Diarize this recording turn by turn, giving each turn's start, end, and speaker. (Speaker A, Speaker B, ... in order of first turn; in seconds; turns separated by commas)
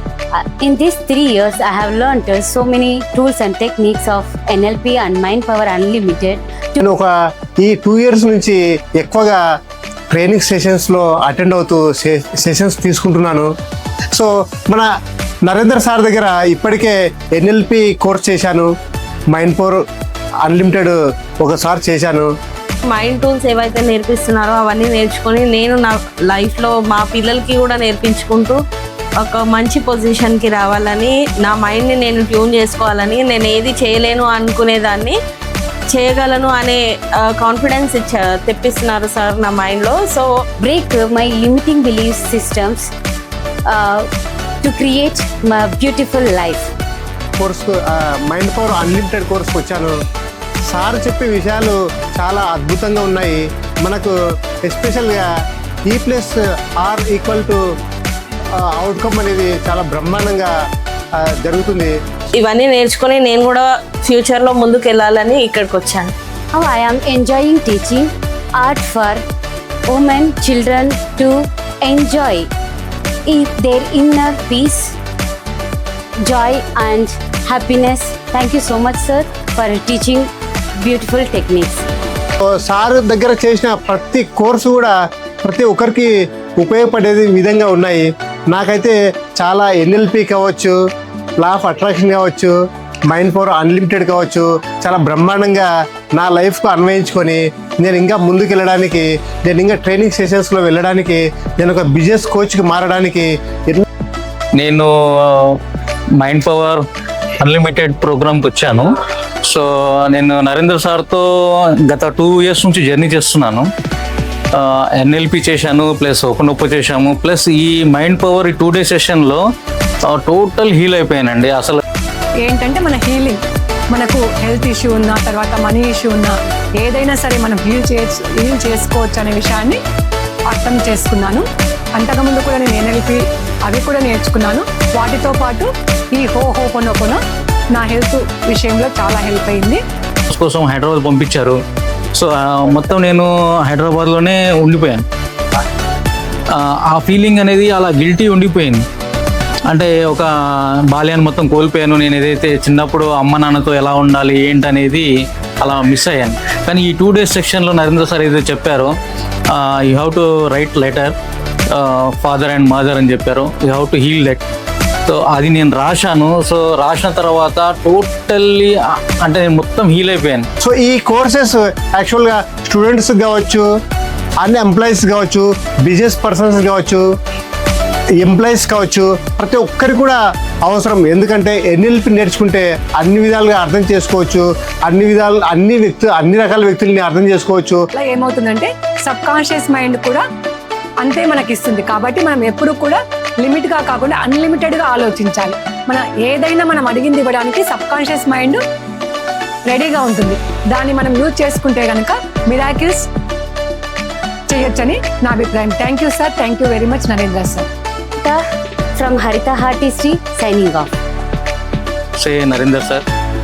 Speaker A: 0.3-6.8, Speaker B: 6.8-9.4, Speaker B: 10.1-13.5, Speaker B: 14.1-14.9, Speaker B: 15.4-18.7, Speaker B: 19.3-19.8, Speaker B: 20.4-22.3, Speaker C: 22.9-28.6, Speaker C: 29.2-35.1, Speaker C: 35.9-40.3, Speaker A: 40.6-42.9, Speaker A: 43.7-44.1, Speaker A: 44.6-46.7, Speaker B: 47.4-50.0, Speaker B: 50.7-55.2, Speaker B: 55.9-57.6, Speaker B: 58.5-60.5, Speaker B: 61.2-61.9, Speaker C: 62.4-66.1, Speaker A: 66.5-69.2, Speaker A: 69.9-72.5, Speaker A: 73.3-74.9, Speaker A: 76.2-81.8, Speaker B: 82.5-90.8, Speaker B: 91.4-92.5, Speaker B: 93.1-103.8, Speaker D: 104.5-105.6, Speaker D: 106.2-106.8, Speaker D: 107.4-108.9, Speaker D: 109.4-111.2, Speaker D: 111.8-113.7, Speaker D: 114.5-119.4, Speaker D: 120.0-121.8, Speaker E: 122.4-123.4, Speaker E: 123.9-129.8, Speaker E: 130.5-137.2, Speaker E: 137.7-139.8, Speaker D: 140.3-141.6, Speaker D: 142.1-145.0, Speaker D: 146.5-148.8, Speaker D: 149.7-150.3, Speaker D: 150.9-155.1, Speaker D: 155.6-158.9, Speaker D: 159.5-161.1, Speaker D: 161.7-164.4, Speaker D: 165.1-170.5, Speaker B: 170.6-173.7, Speaker B: 174.4-177.0, Speaker B: 178.2-187.8, Speaker E: 187.9-190.2, Speaker E: 191.0-198.6, Speaker E: 199.7-203.0, Speaker E: 204.5-207.7, Speaker A: 208.9-210.9, Speaker D: 212.2-213.0